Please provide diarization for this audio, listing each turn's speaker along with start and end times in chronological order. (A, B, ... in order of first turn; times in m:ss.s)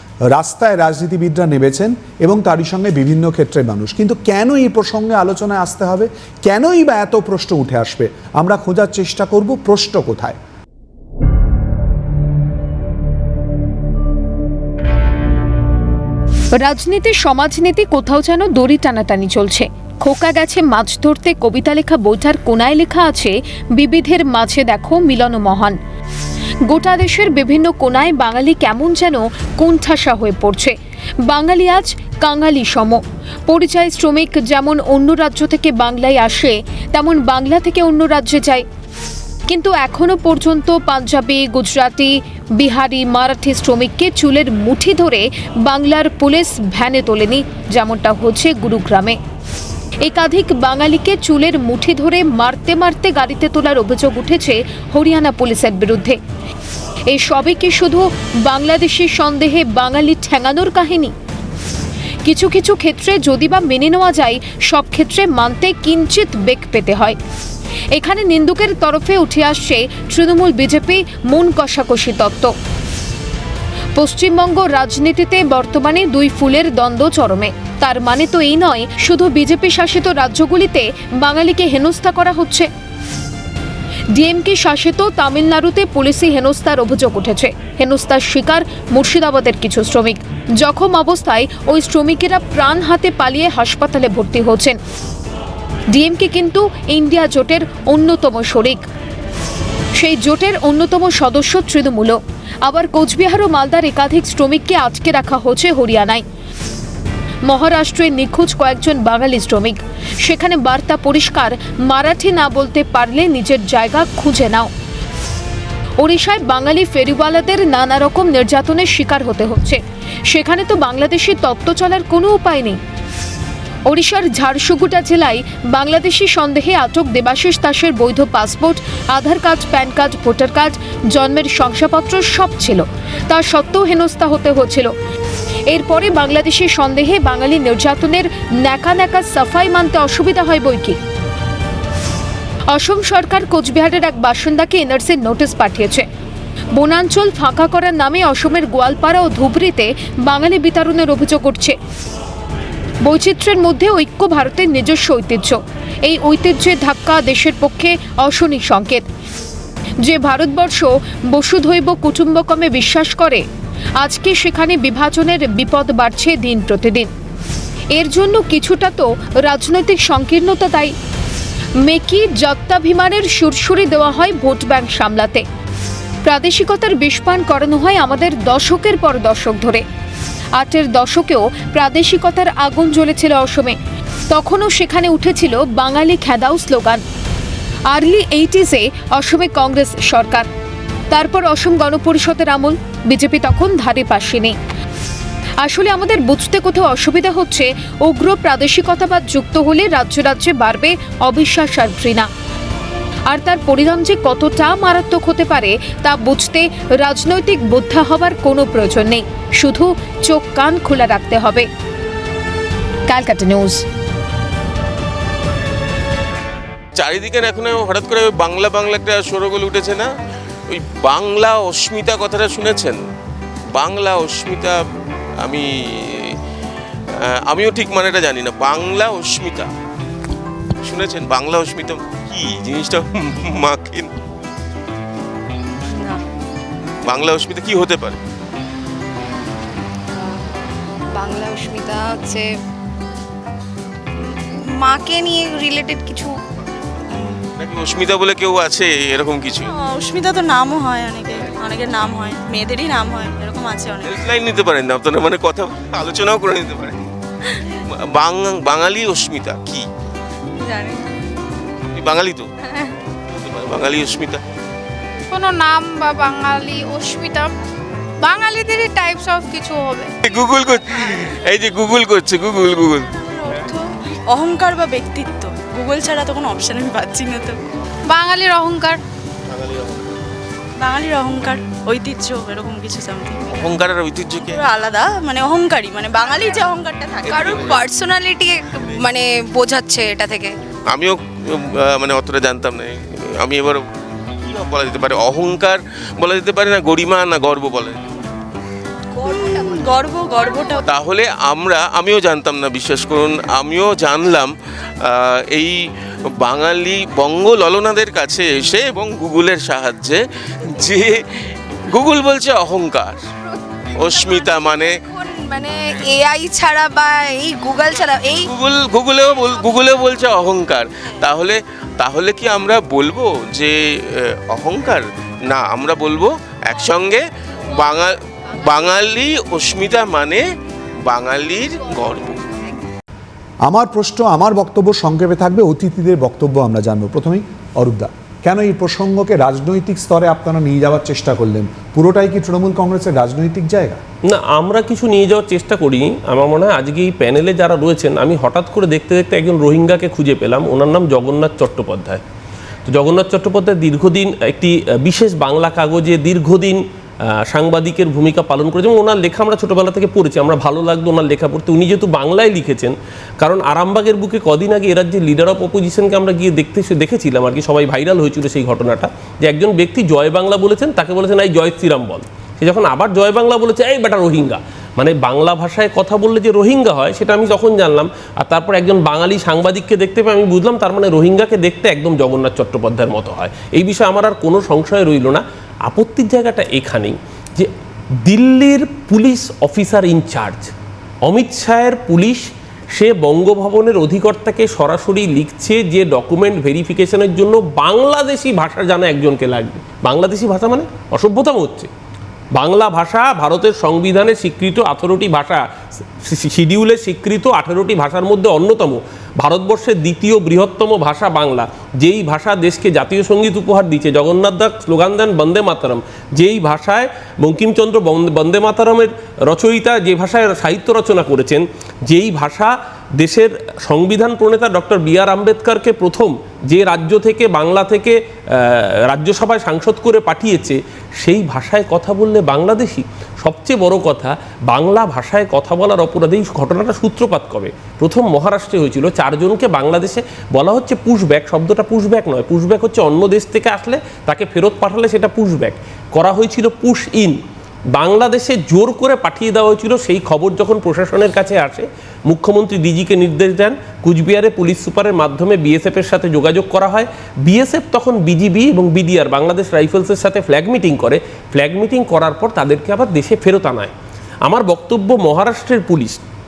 0:00.3-0:10.4 A
0:16.6-0:25.8 B
0:26.7-0:38.6 B
0:39.5-0:49.2 B
0:50.0-0:56.2 B
0:57.1-1:01.1 B
1:02.2-1:07.2 B
1:07.9-1:12.5 B
1:13.9-1:22.7 B
1:24.1-1:34.8 B
1:35.9-1:38.8 B
1:40.0-1:46.2 B
1:47.4-1:54.7 B
1:56.0-2:02.8 B
2:03.8-2:14.9 B
2:15.7-2:21.0 B
2:22.7-2:26.0 B
2:26.7-2:31.8 B
2:33.0-2:39.0 B
2:40.0-2:43.4 B
2:44.0-2:47.1 B
2:47.9-2:50.9 B
2:51.8-2:55.4 B
2:56.2-2:59.8 B
3:00.6-3:03.8 B
3:04.3-3:07.0 B
3:07.9-3:10.5 B
3:11.1-3:14.5 B
3:15.6-3:22.3 B
3:23.3-3:31.7 B
3:33.1-3:33.8 B
3:37.0-3:40.1 C
3:40.7-3:43.0 C
3:43.7-3:44.8 C
3:45.4-3:46.3 C
3:47.2-3:49.7 C
3:50.8-3:54.1 C
3:57.0-3:58.2 C
4:01.1-4:02.5 D
4:04.5-4:06.3 D
4:07.6-4:09.7 C
4:09.7-4:14.2 E
4:14.0-4:17.1 C
4:18.0-4:19.9 C
4:20.6-4:21.0 E
4:21.9-4:22.5 C
4:23.4-4:24.4 C
4:25.3-4:27.5 F
4:28.2-4:30.1 F
4:30.2-4:33.1 C
4:33.2-4:37.6 E
4:38.1-4:39.0 F
4:40.8-4:43.6 E
4:43.5-4:44.6 C
4:44.5-4:47.8 E
4:47.3-4:50.5 D
4:50.9-4:53.8 C
4:54.4-4:58.1 C
4:59.2-5:00.8 D
4:59.2-5:00.8 E
5:00.8-5:04.5 C
5:05.0-5:05.8 C
5:06.4-5:10.2 C
5:10.7-5:13.2 C
5:13.9-5:15.0 C
5:14.0-5:18.5 D
5:18.4-5:30.4 C
5:31.0-5:32.4 C
5:33.6-5:44.0 A
5:44.2-5:52.2 G
5:52.9-6:27.7 G
6:28.2-6:30.7 G
6:31.2-6:41.9 G
6:42.5-6:45.6 G
6:46.2-7:27.4 G
7:27.9-7:43.9 G
7:44.4-7:46.2 G